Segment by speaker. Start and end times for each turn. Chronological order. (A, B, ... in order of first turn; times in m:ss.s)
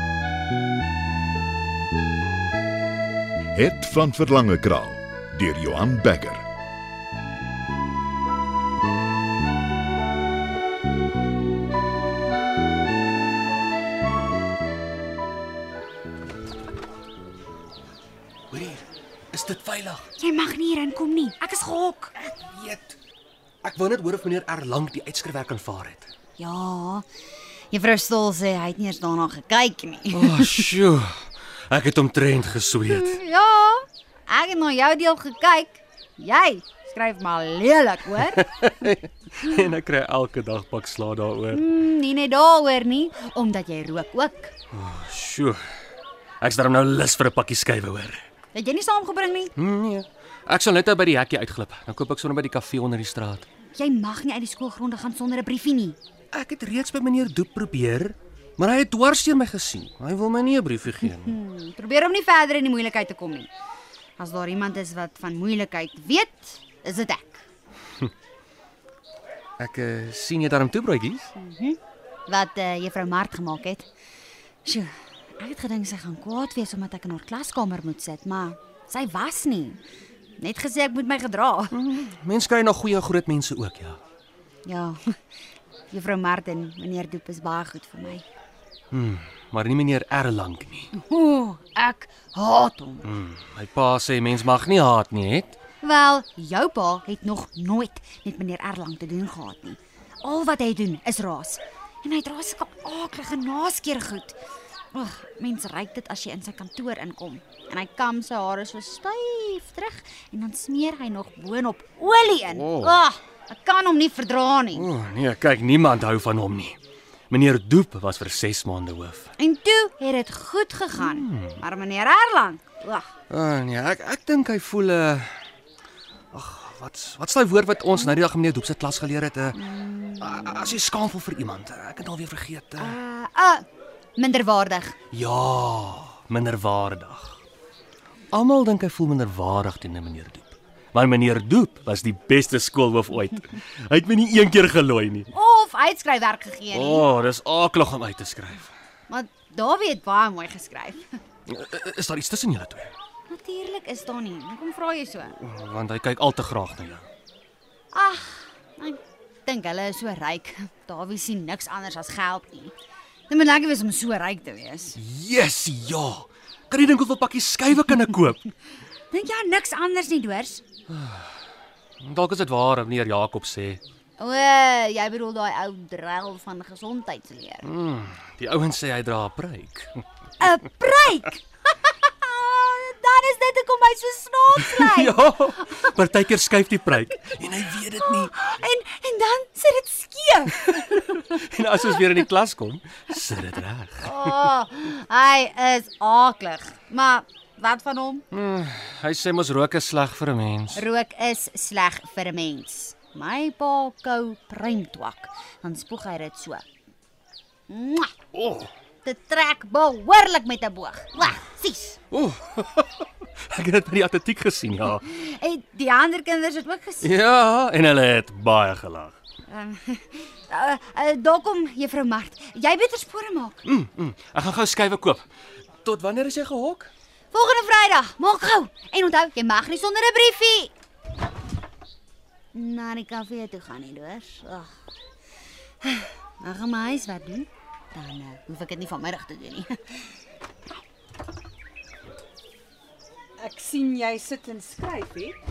0:03.5-0:06.4 A
0:18.5-0:20.1 B
0:20.2-0:22.1 C
0:22.2-0:23.0 B
0:23.6-0:26.1 B
0:26.4-0:27.0 C
0:27.7-0:30.6 C
0:30.1-0:33.2 B
0:32.9-0:38.5 C
0:38.3-0:41.7 B
0:41.5-0:44.5 C
0:44.7-0:45.6 B
0:46.4-0:48.2 B
0:48.5-0:49.5 C
0:49.6-0:53.5 B
0:53.7-0:56.0 C
0:56.3-1:01.4 B
1:01.2-1:03.5 C
1:04.2-1:07.4 C
1:09.6-1:11.3 B
1:11.4-1:13.9 C
1:14.6-1:19.8 C
1:20.4-1:21.7 C
1:21.7-1:24.0 B
1:24.6-1:25.0 C
1:25.9-1:28.2 C
1:28.9-1:30.9 B
1:30.9-1:33.1 C
1:33.0-1:35.6 B
1:35.8-1:44.4 C
1:44.9-1:54.9 C
1:52.4-1:53.0 B
1:54.7-1:56.8 B
1:57.3-1:59.3 B
1:59.4-2:03.1 C
2:01.0-2:01.6 B
2:03.3-2:05.3 B
2:06.3-2:13.0 B
2:09.6-2:10.3 C
2:12.8-2:13.6 C
2:14.2-2:15.0 C
2:15.1-2:17.4 B
2:18.3-2:25.3 B
2:25.3-2:27.1 C
2:26.7-2:28.7 B
2:29.1-2:31.1 C
2:31.5-2:32.9 B
2:33.3-2:35.4 C
2:35.4-2:37.1 B
2:37.9-2:42.7 C
2:43.3-2:45.0 C
2:45.0-2:48.4 B
2:49.1-2:50.6 C
2:50.9-2:51.3 B
2:52.0-2:53.8 B
2:54.2-2:57.7 C
2:57.6-2:59.9 B
3:00.4-3:05.9 C
3:04.6-3:08.3 B
3:08.0-3:11.2 C
3:10.7-3:14.3 B
3:14.0-3:18.3 C
3:18.3-3:20.8 B
3:20.7-3:26.6 C
3:27.7-3:28.1 C
3:28.3-3:28.7 B
3:29.0-3:32.0 C
3:32.1-3:35.0 B
3:35.0-3:37.1 C
3:37.0-3:39.2 B
3:39.5-3:43.6 C
3:43.6-3:45.2 B
3:45.8-3:46.9 B
3:47.3-3:50.7 C
3:52.5-3:54.7 C
3:55.8-4:00.2 C
4:03.4-4:05.4 D